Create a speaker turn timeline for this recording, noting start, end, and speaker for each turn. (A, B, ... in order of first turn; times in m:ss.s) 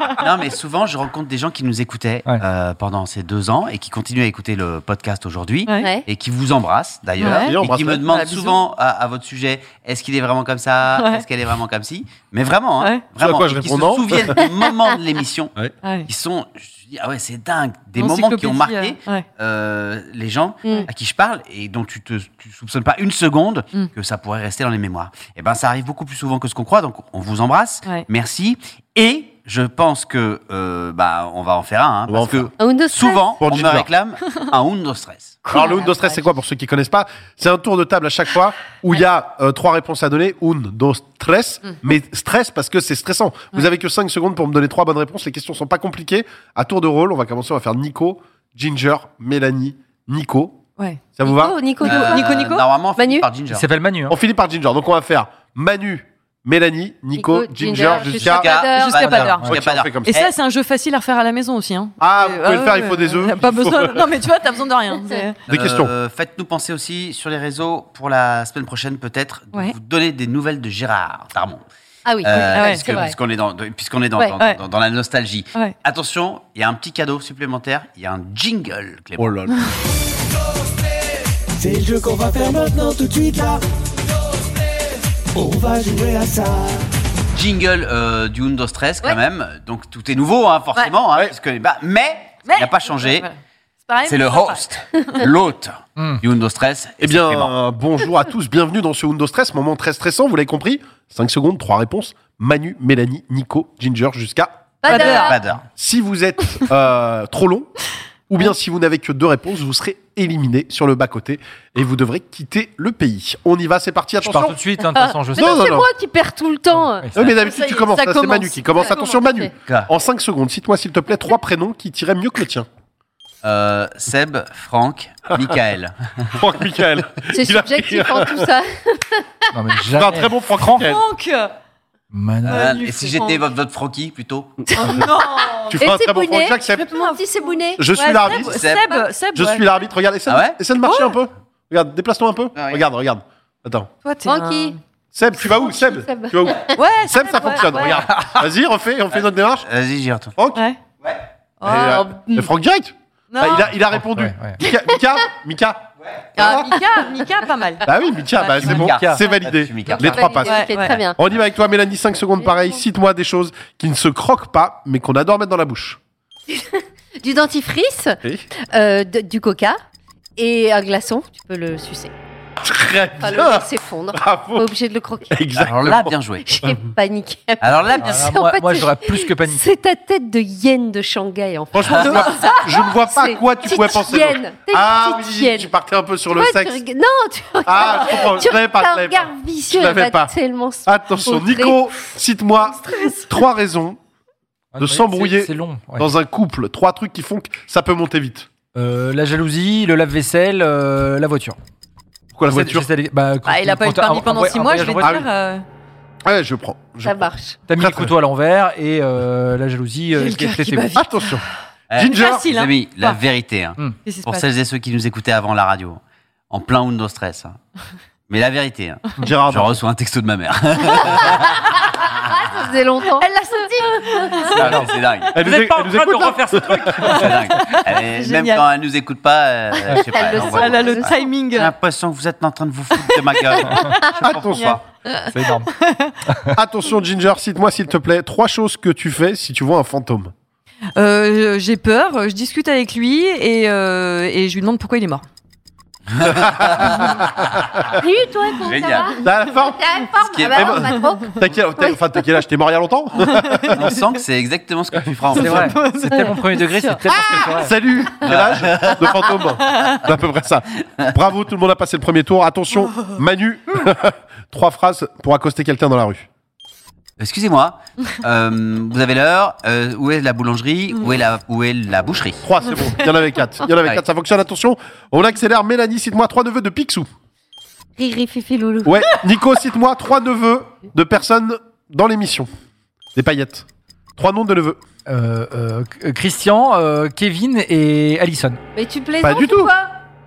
0:00.2-0:15.5 A
0:05.6-0:05.9 B
0:07.2-0:07.6 B
0:07.2-0:08.1 C
0:08.1-0:08.6 B
0:10.9-0:11.2 B
0:13.2-0:14.4 C
0:15.8-0:16.1 B
0:16.1-0:35.4 A
0:18.0-0:19.2 B
0:32.1-0:32.5 C
0:32.6-0:33.2 D
0:33.4-0:33.9 C
0:35.4-0:36.2 B
0:35.5-0:50.6 C
0:35.5-0:36.1 D
0:50.8-0:51.0 B
0:51.2-0:51.6 C
0:51.2-0:52.3 D
0:51.8-0:52.6 B
0:51.8-0:53.6 A
0:53.0-0:53.3 D
0:53.5-0:54.2 E
0:54.1-0:58.5 C
0:57.2-0:59.1 D
0:57.8-1:00.3 A
0:58.7-0:59.5 B
0:59.0-0:59.5 E
0:59.5-1:00.1 C
1:00.1-1:05.4 B
1:02.0-1:04.1 C
1:05.5-1:05.9 C
1:05.5-1:11.6 A
1:12.0-1:13.2 D
1:12.2-1:19.3 A
1:12.3-1:12.9 B
1:19.2-1:19.6 C
1:21.6-1:23.6 F
1:25.3-1:26.8 F
1:27.3-1:33.3 A
1:32.4-1:35.2 B
1:34.0-1:37.5 A
1:36.0-1:36.2 E
1:37.0-1:44.7 C
1:44.8-1:45.4 D
1:44.9-1:45.4 B
1:44.9-1:45.6 A
1:45.8-1:47.7 C
1:48.3-1:54.6 C
1:54.2-1:55.7 E
1:55.0-1:57.1 D
1:55.4-1:55.9 C
1:56.8-1:57.1 E
1:57.1-2:02.7 C
1:57.2-1:59.2 B
1:58.8-1:59.5 D
1:59.6-1:59.9 A
2:03.4-2:06.4 A
2:06.3-2:08.5 C
2:07.3-2:09.4 D
2:09.5-2:10.9 E
2:09.9-2:11.0 C
2:10.7-2:11.5 B
2:12.1-2:12.7 E
2:12.4-2:13.4 B
2:12.4-2:14.6 A
2:14.7-2:15.8 B
2:14.8-2:15.0 D
2:15.7-2:16.9 C
2:15.7-2:19.0 D
2:16.9-2:17.2 B
2:17.8-2:18.6 C
2:17.9-2:19.6 B
2:18.4-2:18.9 A
2:19.3-2:23.9 C
2:20.3-2:20.6 A
2:20.8-2:21.1 B
2:22.5-2:22.8 A
2:24.0-2:24.8 B
2:24.2-2:24.8 D
2:25.1-2:29.6 C
2:25.4-2:26.7 D
2:26.7-2:28.1 B
2:28.1-2:28.4 E
2:29.1-2:30.3 A
2:30.4-2:30.6 C
2:31.6-2:32.0 B
2:31.6-2:36.7 C
2:31.8-2:32.5 D
2:33.3-2:33.7 B
2:33.9-2:34.6 E
2:36.4-2:37.8 B
2:37.8-2:46.0 C
2:38.6-2:40.3 A
2:38.6-2:39.2 E
2:39.8-2:41.2 D
2:40.4-2:41.0 B
2:46.5-2:49.8 D
2:50.4-2:52.1 D
2:52.6-2:54.7 C
2:53.2-2:55.3 D
2:55.3-2:56.1 C
2:55.6-2:56.5 A
2:56.4-3:05.7 D
2:57.6-2:58.3 A
2:58.0-2:59.6 E
3:01.7-3:06.8 C
3:06.3-3:12.1 D
3:07.6-3:10.3 C
3:10.8-3:14.0 C
3:14.7-3:16.1 E
3:14.8-3:18.5 C
3:18.7-3:21.6 E
3:22.3-3:22.9 C
3:22.5-3:25.2 E
3:23.4-3:25.6 B
3:26.2-3:28.1 C
3:27.0-3:27.6 D
3:27.7-3:30.9 E
3:30.1-3:31.5 B
3:30.9-3:32.4 C
3:31.9-3:37.6 A
3:32.0-3:33.2 B
3:34.0-3:34.4 B
3:38.3-3:41.6 A
3:39.2-3:39.8 C
3:41.6-3:44.6 D
3:43.2-3:44.6 B
3:44.5-3:45.4 A
3:44.6-3:47.8 E
3:45.3-3:47.2 C
3:47.0-3:54.8 A
3:47.6-3:48.6 B
3:49.9-3:51.2 D
3:50.2-3:51.7 B
3:53.1-3:54.8 B
3:54.2-3:54.8 C
3:55.3-3:55.7 E
3:55.7-3:56.2 B
3:56.3-3:56.5 E
3:56.6-4:00.3 C
4:01.0-4:05.2 B
4:06.1-4:07.2 A
4:06.3-4:07.2 C
4:08.0-4:12.0 D
4:08.6-4:09.1 A
4:09.2-4:09.9 C
4:10.2-4:10.9 A
4:10.5-4:13.9 C
4:13.2-4:13.8 B
4:13.7-4:15.7 A
4:15.3-4:17.7 E
4:15.4-4:16.9 B
4:17.1-4:26.3 C
4:18.2-4:19.3 A
4:19.7-4:20.0 B
4:27.2-4:32.4 A
4:32.4-4:37.1 C
4:38.0-4:39.2 D
4:38.8-4:42.5 C
4:43.1-4:43.6 C
4:44.2-4:44.8 C
4:45.1-4:48.6 E
4:48.7-4:49.9 D
4:49.2-4:49.7 C